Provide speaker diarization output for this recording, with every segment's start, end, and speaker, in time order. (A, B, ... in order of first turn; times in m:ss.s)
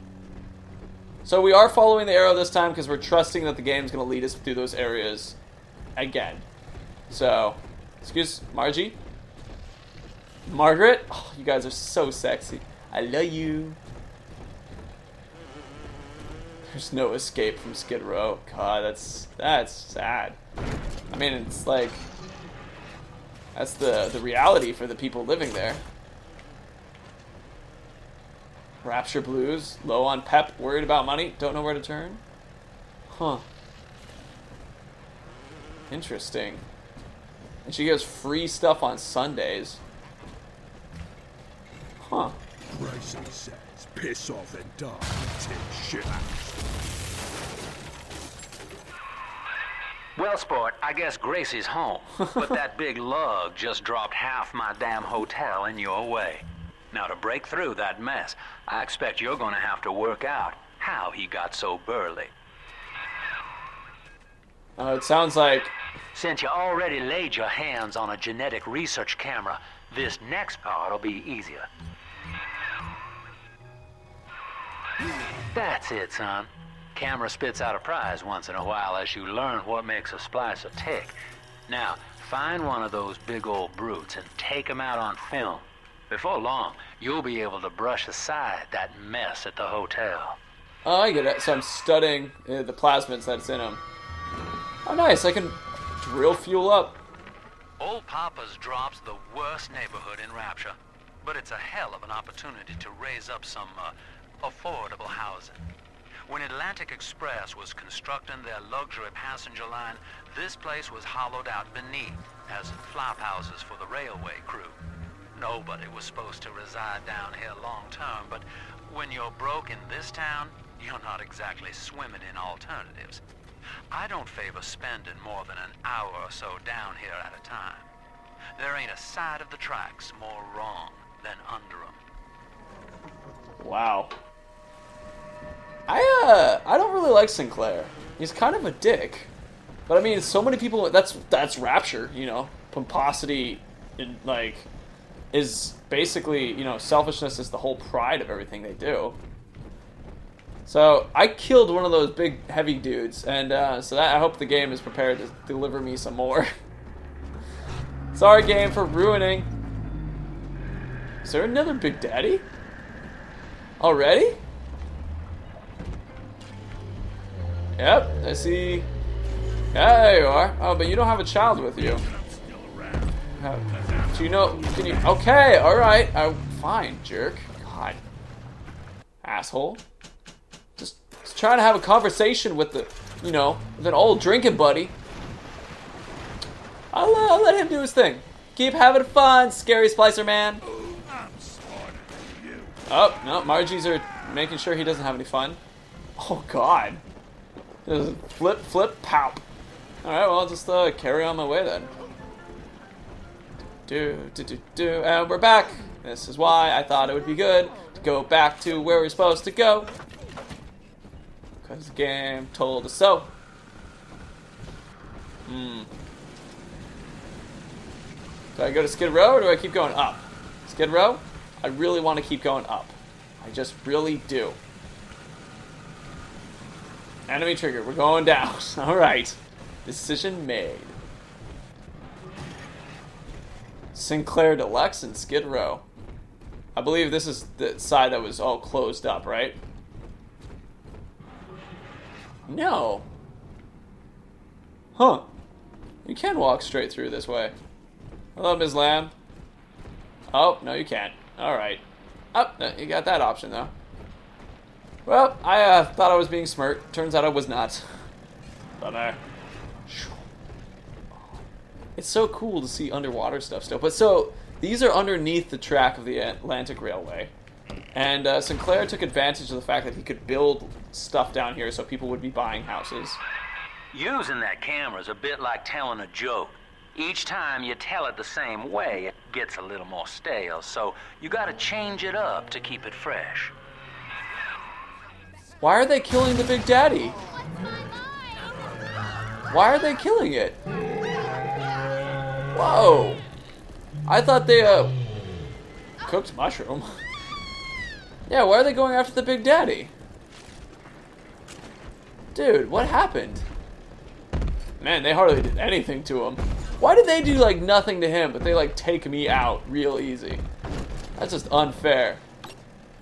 0:01.2-0:05.4 A
0:06.0-0:06.4 A
0:07.1-0:09.0 A
0:10.4-0:13.8 A
0:16.7-0:20.4 A
0:21.1-0:22.0 A
0:23.5-0:25.8 A
0:28.8-0:32.2 A
0:33.1-0:33.4 A
0:35.9-0:36.6 A
0:37.6-0:39.8 A
0:42.0-0:42.4 A
0:42.7-0:46.3 B
0:50.2-1:02.3 C
1:04.8-1:05.7 A
1:06.1-1:11.7 C
1:15.5-1:30.4 C
1:30.8-1:33.8 A
1:34.8-1:37.0 A
1:37.8-1:45.6 C
1:46.2-1:54.8 C
1:55.3-2:03.2 C
2:03.9-2:07.9 C
2:08.6-2:12.0 C
2:13.6-2:14.1 A
2:15.9-2:19.3 A
2:19.9-2:24.7 A
2:25.3-2:29.2 A
2:30.6-2:36.5 A
2:38.1-2:39.5 A
2:41.2-2:42.4 A
2:43.8-2:44.4 A
2:47.8-2:48.9 A
2:49.7-2:52.0 A
2:52.4-2:53.1 B
2:53.3-2:58.0 A
2:59.2-2:59.8 A
3:00.8-3:04.9 A
3:06.9-3:10.6 A
3:10.8-3:12.7 B
3:12.9-3:15.6 A
3:16.2-3:17.0 A
3:17.8-3:19.4 A
3:20.0-3:21.9 A
3:23.8-3:29.9 A
3:31.6-3:33.3 A
3:35.5-3:35.9 A
3:38.6-3:44.6 A
3:47.3-3:51.0 A
3:53.9-3:55.8 A
3:56.7-3:59.6 A
4:02.5-4:03.1 A
4:05.0-4:05.2 A
4:06.0-4:07.5 A
4:08.4-4:09.1 A
4:10.3-4:11.8 A
4:12.3-4:13.7 A
4:15.0-4:17.8 A
4:18.8-4:19.2 A
4:19.9-4:20.3 A
4:22.0-4:27.3 A
4:27.9-4:33.2 A
4:33.9-4:43.5 C
4:45.6-4:47.2 A
4:49.5-4:50.6 A
4:52.5-4:53.2 A
4:54.1-4:54.9 A
4:56.0-4:57.0 A
4:58.3-4:59.9 A
5:02.3-5:03.4 A
5:04.8-5:10.4 A
5:11.2-5:12.2 A